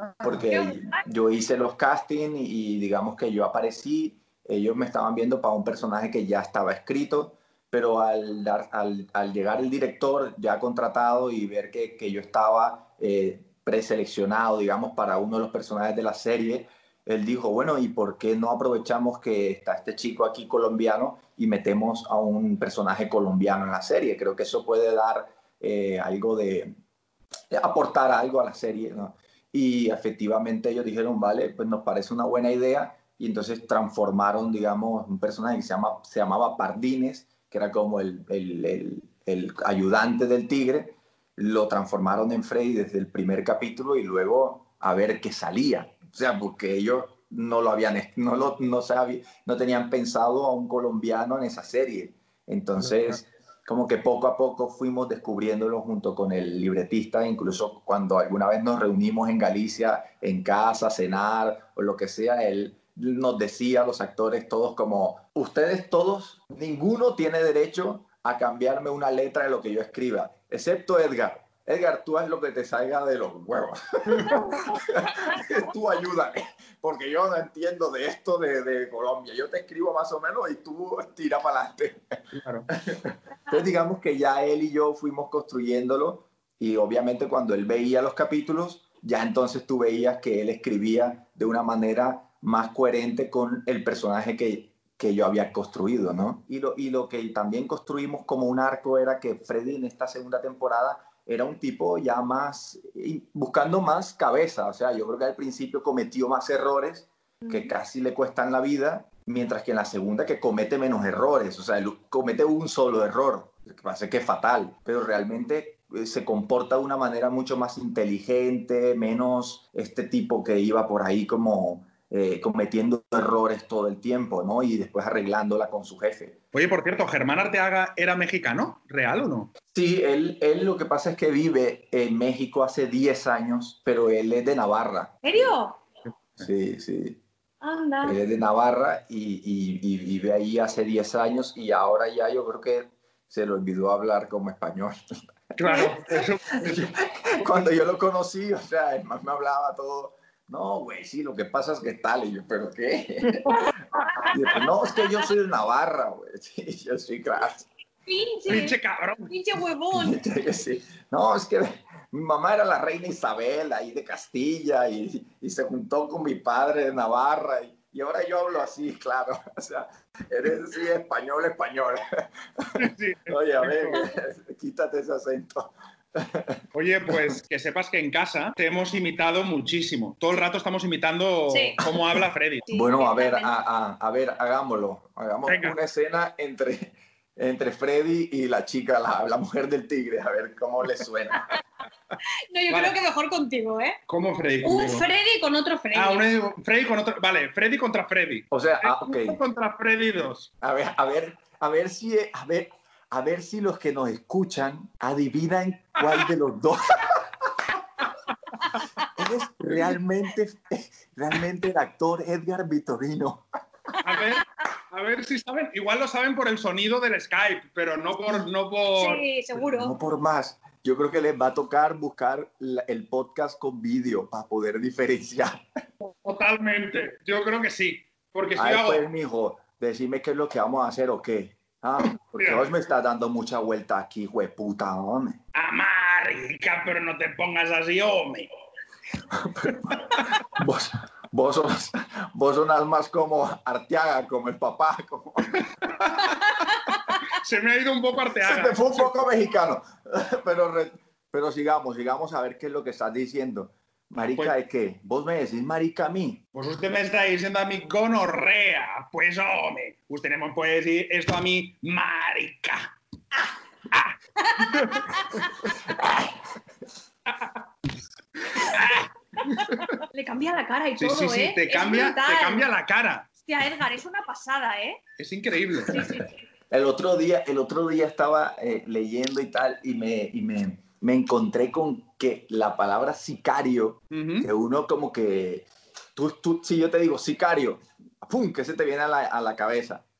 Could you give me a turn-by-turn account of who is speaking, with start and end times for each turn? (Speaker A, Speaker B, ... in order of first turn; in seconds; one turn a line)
Speaker A: 0.2-26.7
Speaker B: 0.3-0.9
Speaker A: 27.5-82.2
Speaker C: 52.8-53.2
Speaker C: 82.3-82.7
Speaker A: 82.8-126.4
Speaker B: 107.4-107.7
Speaker C: 126.5-129.5
Speaker A: 129.7-135.2
Speaker B: 135.2-135.8
Speaker A: 136.4-137.2
Speaker B: 137.6-138.2
Speaker A: 138.0-144.9
Speaker C: 145.6-147.7
Speaker B: 145.7-145.9
Speaker A: 145.7-153.7
Speaker A: 154.3-157.7
Speaker B: 158.1-160.2
Speaker C: 158.5-159.3
Speaker A: 159.9-172.0
Speaker C: 172.8-174.1
Speaker A: 173.3-177.2
Speaker C: 176.7-182.7
Speaker B: 181.5-181.8
Speaker B: 182.7-183.5
Speaker A: 182.7-191.6
Speaker C: 185.5-185.8
Speaker B: 192.5-194.0
Speaker C: 192.7-193.0
Speaker C: 194.1-195.1
Speaker B: 194.6-196.3
Speaker C: 195.9-200.5
Speaker A: 198.5-199.4
Speaker A: 200.6-207.2
Speaker A: 209.1-213.4
Speaker C: 214.0-219.2
Speaker B: 218.9-219.9
Speaker A: 219.6-225.6
Speaker C: 226.0-229.1
Speaker A: 228.6-235.4
Speaker C: 232.2-232.7
Speaker C: 235.5-238.5
Speaker A: 239.3-246.3
Speaker C: 240.0-240.3
Speaker C: 247.3-249.3
Speaker A: 248.4-256.4
Speaker C: 254.3-254.6
Speaker C: 256.5-263.4
Speaker B: 264.4-265.4
Speaker A: 265.9-266.3
Speaker C: 267.3-267.6
Speaker C: 268.6-269.8
Speaker B: 269.4-272.7
Speaker C: 271.0-273.3
Speaker B: 273.4-275.0
Speaker C: 275.2-276.1
Speaker B: 275.9-276.3
Speaker A: 275.9-290.0
Speaker C: 284.1-284.5